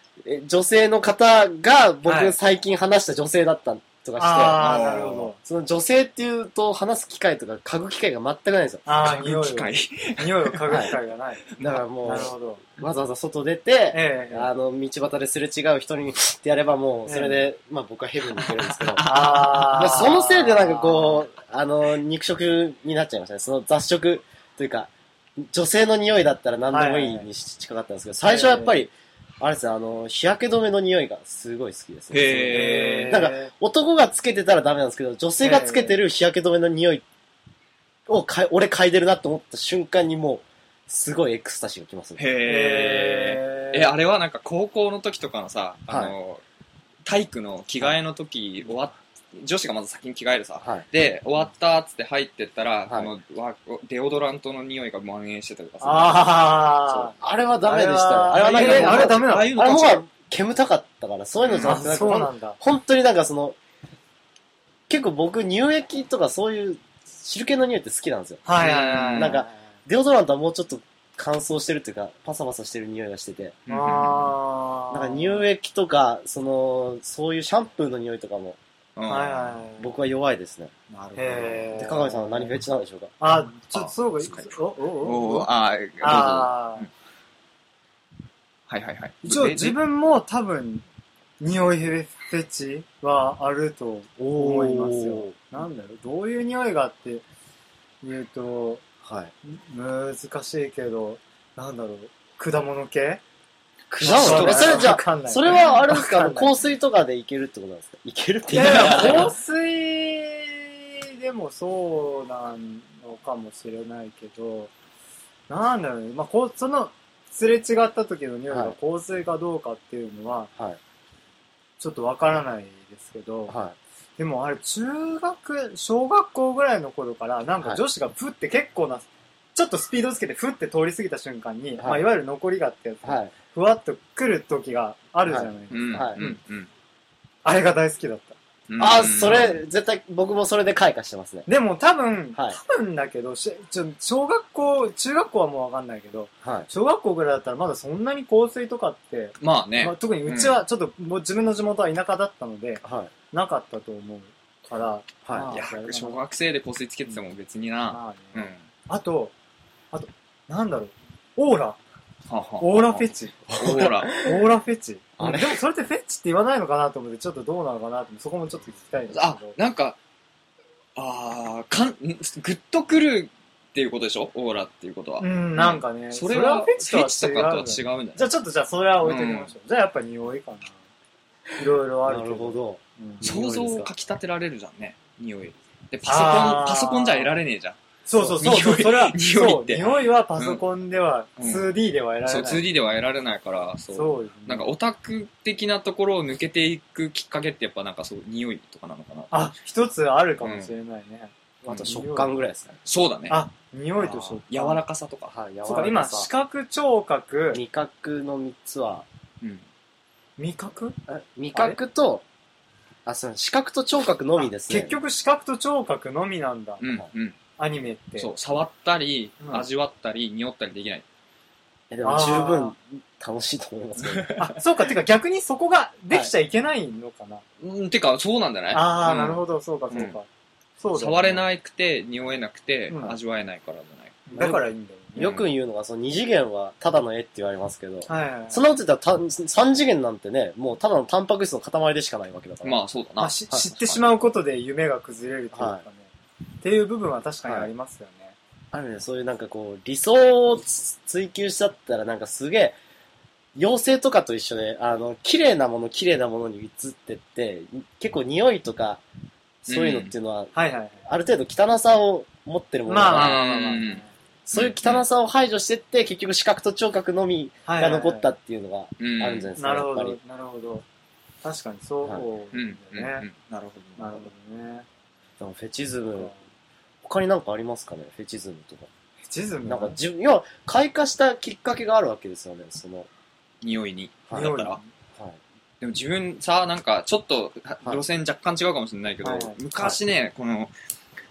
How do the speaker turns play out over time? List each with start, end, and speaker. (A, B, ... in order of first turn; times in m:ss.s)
0:00.2-0:08.8 A
0:02.0-0:02.4 B
0:04.2-0:05.4 B
0:04.6-0:05.3 C
0:08.9-0:11.5 B
0:09.0-0:10.9 C
0:11.6-0:11.8 C
0:11.6-0:24.9 A
0:12.0-0:12.6 B
0:13.9-0:14.5 B
0:17.0-0:17.5 B
0:18.4-0:19.8 C
0:19.0-0:21.2 B
0:25.5-0:37.0 A
0:26.7-0:27.3 B
0:28.2-0:28.8 B
0:32.1-0:33.2 C
0:32.5-0:33.5 B
0:35.4-0:36.0 B
0:38.1-0:42.2 A
0:42.2-0:46.4 C
0:42.4-0:43.9 B
0:45.9-0:46.2 A
0:47.1-0:56.3 C
0:50.6-0:50.9 A
0:55.8-0:59.8 B
0:57.2-1:03.6 A
0:58.4-1:00.0 C
1:01.4-1:01.8 C
1:01.6-1:02.6 B
1:04.9-1:13.6 A
1:08.4-1:09.6 B
1:08.6-1:09.4 C
1:13.7-1:14.4 C
1:13.7-1:15.4 B
1:14.9-1:18.6 A
1:19.0-1:19.6 C
1:19.1-1:19.9 B
1:19.8-1:20.7 A
1:20.9-1:21.8 C
1:21.2-1:22.5 B
1:21.8-1:23.1 A
1:23.2-1:25.5 B
1:23.6-1:24.5 C
1:25.0-1:26.9 C
1:26.0-1:26.9 B
1:28.7-1:29.8 C
1:29.2-1:30.8 B
1:31.4-1:37.2 B
1:34.2-1:35.4 A
1:38.0-1:38.8 B
1:39.0-1:39.3 A
1:39.4-1:43.2 B
1:43.9-1:49.3 A
1:44.0-1:46.6 B
1:44.1-1:44.9 C
1:48.5-1:54.7 B
1:48.6-1:49.3 C
1:55.5-2:00.5 B
1:58.5-1:58.8 A
2:01.8-2:03.6 B
2:03.5-2:03.8 A
2:04.2-2:16.4 B
2:11.8-2:12.1 A
2:13.0-2:13.3 A
2:15.3-2:16.2 A
2:15.7-2:16.7 C
2:17.4-2:18.4 B
2:18.7-2:19.6 C
2:18.8-2:21.5 A
2:21.5-2:36.2 B
2:26.4-2:26.7 A
2:29.4-2:30.6 C
2:32.8-2:33.1 A
2:35.2-2:35.5 A
2:35.5-2:38.6 C
2:37.9-2:39.3 B
2:39.9-2:41.8 B
2:42.3-2:44.2 C
2:42.6-2:49.6 B
2:43.6-2:44.4 A
2:45.2-2:45.6 A
2:49.1-2:50.0 C
2:51.0-2:58.3 C
2:55.2-3:00.8 B
2:59.0-2:59.5 C
3:01.6-3:03.3 B
3:02.0-3:03.9 A
3:03.2-3:10.6 C
3:06.0-3:07.3 B
3:08.1-3:12.7 B
3:11.4-3:11.7 C
3:12.2-3:19.4 C
3:13.9-3:14.7 B
3:19.3-3:21.3 B
3:20.4-3:20.7 C
3:21.6-3:22.8 A
3:21.7-3:21.9 C
3:21.8-3:22.3 B
3:22.8-3:23.4 C
3:23.3-3:24.8 B
3:24.0-3:25.4 C
3:25.3-3:26.3 A
3:25.6-3:27.6 B
3:27.5-3:29.0 A
3:30.4-3:31.0 B
3:31.1-3:32.2 A
3:31.5-3:31.8 B
3:33.1-3:35.0 A
3:34.5-3:36.8 B
3:36.8-3:37.4 C
3:37.6-3:38.3 B
3:38.2-3:41.0 C
3:39.4-3:39.7 B
3:41.9-3:44.4 A
3:42.0-3:42.7 B
3:44.0-3:44.5 C
3:44.4-3:47.4 B
3:47.6-3:50.2 C
3:48.7-3:50.3 B
3:50.8-3:51.5 B
3:50.9-3:54.3 C
3:52.9-3:53.2 B
3:54.3-3:55.3 B
3:54.4-4:02.8 A
3:55.2-3:55.5 C
3:58.1-3:58.6 B
4:02.6-4:04.2 C
4:03.2-4:06.1 B
4:05.5-4:05.8 A
4:06.6-4:08.4 B
4:07.4-4:07.7 A
4:08.7-4:12.8 A
4:13.6-4:19.0 A
4:19.7-4:20.5 A
4:19.7-4:20.1 C
4:20.5-4:21.0 B
4:21.1-4:23.4 A
4:22.9-4:24.1 B
4:23.1-4:25.1 C
4:24.5-4:30.2 A
4:27.7-4:28.3 B
4:29.0-4:29.5 C
4:29.6-4:30.8 B
4:31.4-4:33.3 B
4:32.5-4:34.3 C
4:34.0-4:34.9 B
4:35.4-4:36.3 A
4:37.0-4:38.9 A
4:39.2-4:40.0 B
4:39.7-4:43.1 A
4:43.6-4:44.8 C
4:44.3-4:44.9 B
4:45.8-4:50.7 C
4:49.2-4:49.6 B